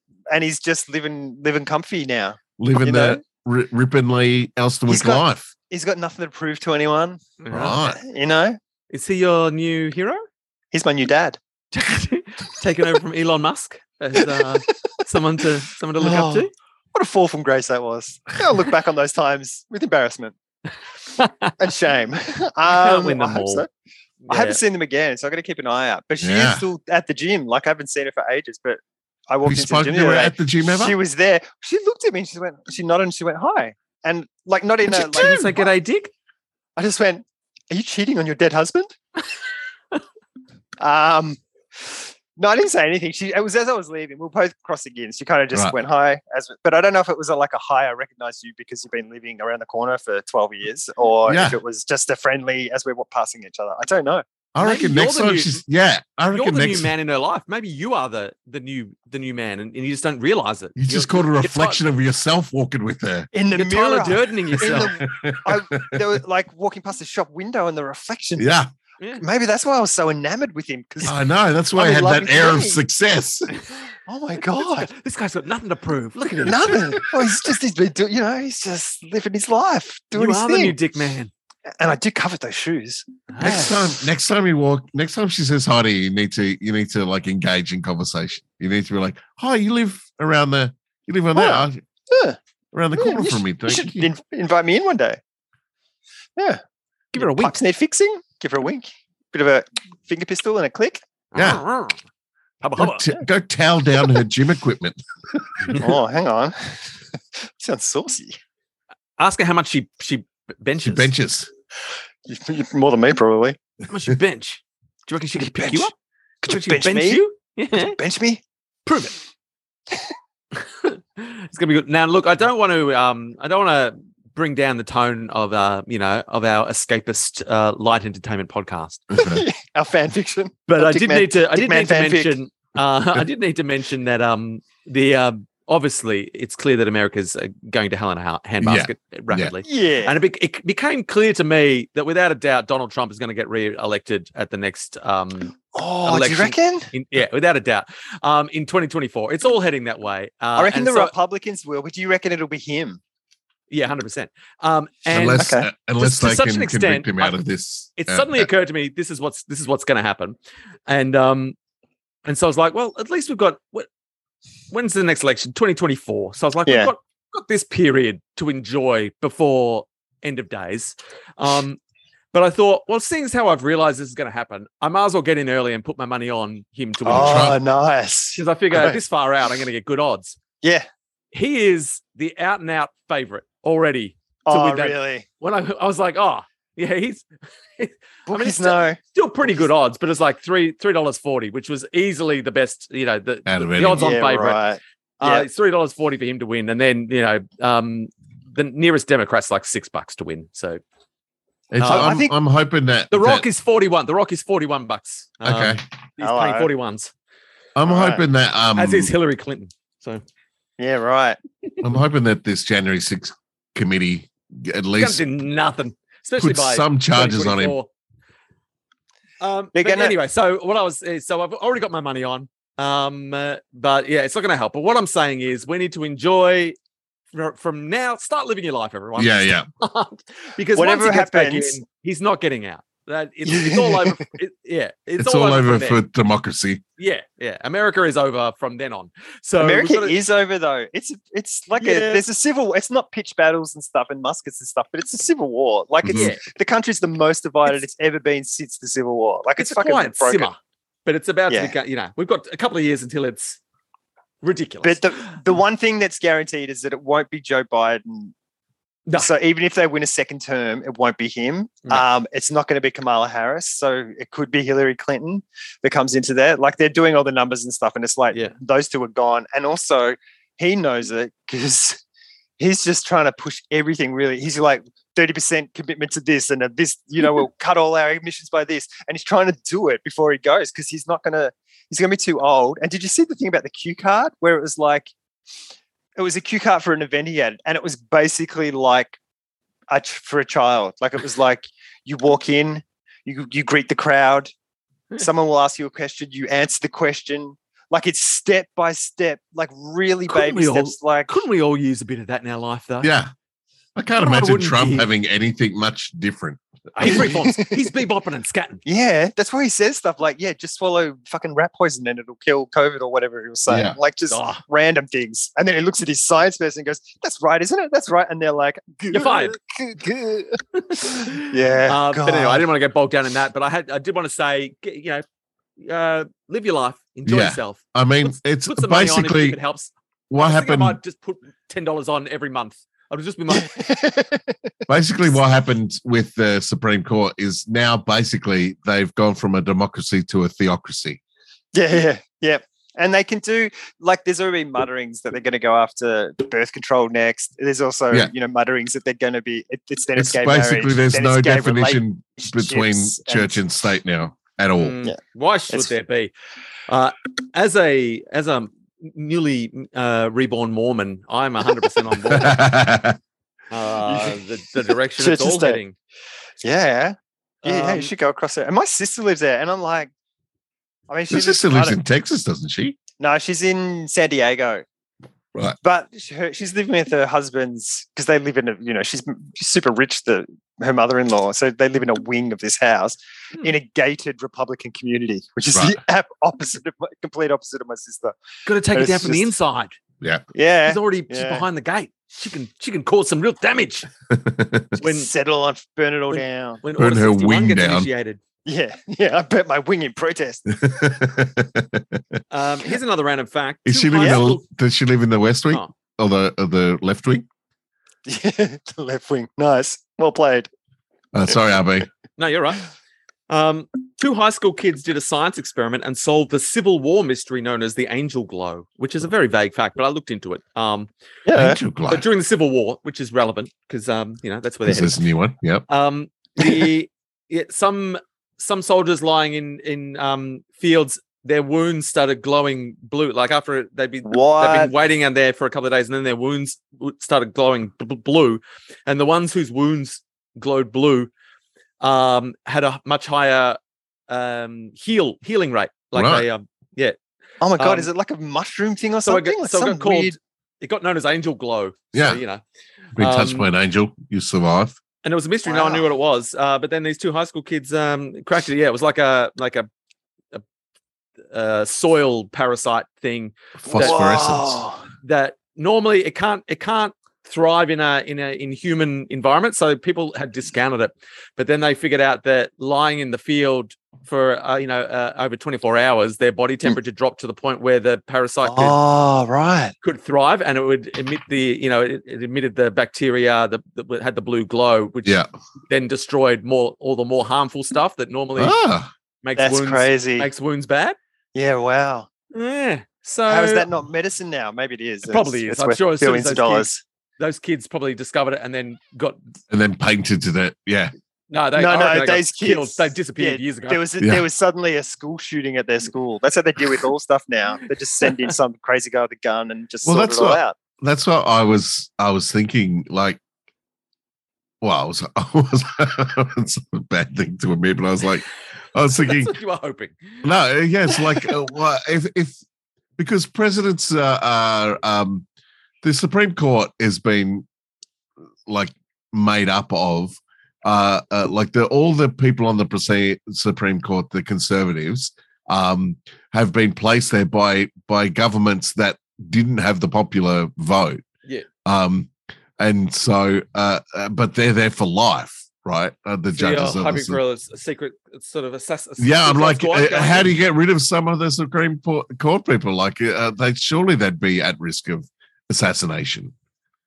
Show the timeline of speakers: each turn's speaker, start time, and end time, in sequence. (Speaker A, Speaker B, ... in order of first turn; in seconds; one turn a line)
Speaker A: 0.3-3.2
Speaker B: 2.6-5.5
Speaker A: 4.9-7.2
Speaker C: 7.4-7.8
Speaker B: 7.5-8.0
Speaker A: 7.8-8.6
Speaker C: 8.9-10.2
Speaker A: 10.7-11.4
Speaker C: 11.7-16.5
Speaker A: 14.2-15.0
Speaker A: 16.0-20.4
Speaker C: 21.1-21.5
Speaker A: 21.6-23.7
Speaker C: 22.7-23.6
Speaker C: 24.2-24.6
Speaker A: 24.3-35.7
Speaker B: 26.2-26.7
Speaker B: 29.4-31.0
Speaker C: 34.9-36.1
Speaker A: 36.8-38.9
Speaker A: 40.8-54.2
Speaker B: 51.3-51.6
Speaker B: 54.5-56.9
Speaker C: 54.6-55.6
Speaker C: 56.3-61.8
Speaker B: 60.8-63.3
Speaker A: 63.3-68.5
Speaker C: 63.5-64.9
Speaker B: 64.7-66.0
Speaker B: 68.4-68.7
Speaker C: 69.0-69.2
Speaker A: 69.2-71.2
Speaker B: 71.0-73.5
Speaker A: 71.7-72.8
Speaker A: 74.1-74.9
Speaker C: 74.5-77.0
Speaker A: 76.4-80.8
Speaker C: 80.1-81.3
Speaker A: 81.8-83.7
Speaker C: 83.3-83.8
Speaker B: 83.4-91.8
Speaker A: 91.3-92.4
Speaker B: 92.7-94.1
Speaker A: 93.0-95.2
Speaker C: 97.1-97.6
Speaker A: 97.2-101.0
Speaker C: 101.3-102.0
Speaker B: 101.3-101.6
Speaker C: 102.6-103.1
Speaker B: 102.8-105.8
Speaker A: 105.8-108.4
Speaker C: 109.2-111.1
Speaker B: 110.8-111.5
Speaker A: 112.3-113.6
Speaker C: 113.9-115.9
Speaker A: 115.4-115.9
Speaker A: 116.4-118.4
Speaker C: 116.5-118.0
Speaker C: 118.9-119.2
Speaker C: 120.5-129.1
Speaker B: 129.1-129.4
Speaker A: 129.2-132.3
Speaker C: 130.7-151.1
Speaker B: 138.6-139.6
Speaker A: 139.6-140.2
Speaker A: 145.7-146.9
Speaker A: 150.6-153.0
Speaker C: 153.7-157.4
Speaker B: 155.1-158.5
Speaker A: 155.4-155.7
Speaker C: 158.0-160.4
Speaker C: 160.9-161.6
Speaker C: 162.2-163.9
Speaker C: 164.7-171.8
Speaker A: 166.7-166.9
Speaker C: 172.3-177.6
Speaker A: 177.0-179.0
Speaker B: 177.1-177.6
Speaker C: 178.3-180.4
Speaker C: 181.3-194.6
Speaker A: 184.5-185.2
Speaker A: 188.3-189.0
Speaker B: 193.5-194.1
Speaker A: 193.9-195.5
Speaker C: 195.2-200.8
Speaker B: 201.7-203.5
Speaker C: 201.8-202.2
Speaker A: 201.8-202.3
Speaker C: 203.1-207.1
Speaker B: 205.4-205.8
Speaker A: 206.2-206.7
Speaker B: 207.8-209.1
Speaker A: 207.9-208.2
Speaker C: 208.8-210.2
Speaker A: 210.8-211.4
Speaker B: 211.8-215.2
Speaker C: 215.0-217.9
Speaker B: 216.4-217.8
Speaker C: 219.4-226.8
Speaker A: 219.8-220.2
Speaker C: 227.3-236.0
Speaker B: 229.2-229.7
Speaker A: 230.8-231.8
Speaker A: 233.4-234.2
Speaker B: 235.2-236.8
Speaker C: 237.0-240.2
Speaker A: 239.6-250.5
Speaker C: 241.8-242.2
Speaker B: 246.0-246.3
Speaker C: 246.1-246.4
Speaker C: 249.6-253.6
Speaker A: 251.5-251.8
Speaker C: 254.4-255.3
Speaker A: 254.8-258.3
Speaker A: 259.2-272.0
Speaker A: 272.6-285.1
Speaker A: 286.2-289.2
Speaker A: 289.9-294.5
Speaker A: 295.2-301.4
Speaker C: 300.3-303.1
Speaker B: 303.0-303.3
Speaker B: 304.0-307.2
Speaker C: 304.2-305.1
Speaker C: 306.9-308.8
Speaker A: 307.0-308.0
Speaker A: 308.9-322.7
Speaker B: 313.7-314.0
Speaker C: 314.3-314.6
Speaker C: 319.1-319.6
Speaker C: 320.8-325.2
Speaker C: 325.8-333.8
Speaker B: 327.2-329.6
Speaker B: 330.3-331.0
Speaker A: 333.5-334.6
Speaker B: 334.9-341.2
Speaker A: 341.7-353.6
Speaker B: 350.2-355.0
Speaker C: 354.8-356.3
Speaker C: 356.9-362.6
Speaker B: 362.3-363.2
Speaker C: 363.7-365.9
Speaker A: 364.0-364.4
Speaker A: 365.2-365.8
Speaker A: 366.6-370.1
Speaker C: 367.6-368.1
Speaker A: 371.1-372.0
Speaker B: 371.3-373.0
Speaker A: 373.2-374.8
Speaker A: 375.8-388.4
Speaker B: 385.7-386.0
Speaker C: 388.7-390.0
Speaker A: 388.9-389.5
Speaker A: 390.5-391.7
Speaker C: 390.9-394.1
Speaker B: 394.3-395.0
Speaker A: 395.0-396.8
Speaker C: 395.0-395.3
Speaker C: 396.3-398.4
Speaker B: 397.0-398.1
Speaker A: 398.6-400.6
Speaker B: 400.7-402.4
Speaker C: 402.5-404.6
Speaker B: 403.9-407.5
Speaker A: 408.2-410.7
Speaker B: 411.3-412.1
Speaker C: 412.4-412.9
Speaker C: 413.5-421.1
Speaker A: 421.5-421.8
Speaker B: 421.5-422.2
Speaker C: 422.1-425.1
Speaker B: 424.9-425.9
Speaker C: 425.9-441.3
Speaker A: 426.6-426.9
Speaker A: 434.2-434.9
Speaker C: 442.0-443.8
Speaker C: 444.3-447.2
Speaker B: 446.1-446.5
Speaker A: 447.6-450.4
Speaker C: 447.8-448.1
Speaker C: 449.2-452.6
Speaker B: 452.1-452.4
Speaker B: 453.2-455.0
Speaker C: 453.2-453.7
Speaker C: 455.2-459.9
Speaker A: 455.6-456.1
Speaker C: 461.5-464.2
Speaker B: 463.8-464.9
Speaker A: 463.9-465.0
Speaker C: 465.2-479.0
Speaker A: 478.6-479.9
Speaker C: 480.0-485.4
Speaker B: 485.2-485.5
Speaker C: 485.9-488.8
Speaker B: 488.6-489.1
Speaker C: 489.4-491.2
Speaker A: 489.6-490.5
Speaker A: 491.6-492.3
Speaker C: 492.5-493.9
Speaker A: 493.5-497.0
Speaker C: 495.3-499.4
Speaker B: 499.7-501.1
Speaker C: 501.5-504.0
Speaker A: 501.8-510.8
Speaker B: 510.1-513.4
Speaker B: 514.8-519.6
Speaker C: 519.2-520.4
Speaker B: 520.4-522.6
Speaker B: 523.2-525.5
Speaker B: 526.0-527.6
Speaker B: 528.7-541.2
Speaker B: 541.9-547.4
Speaker C: 546.5-550.5
Speaker B: 549.2-556.5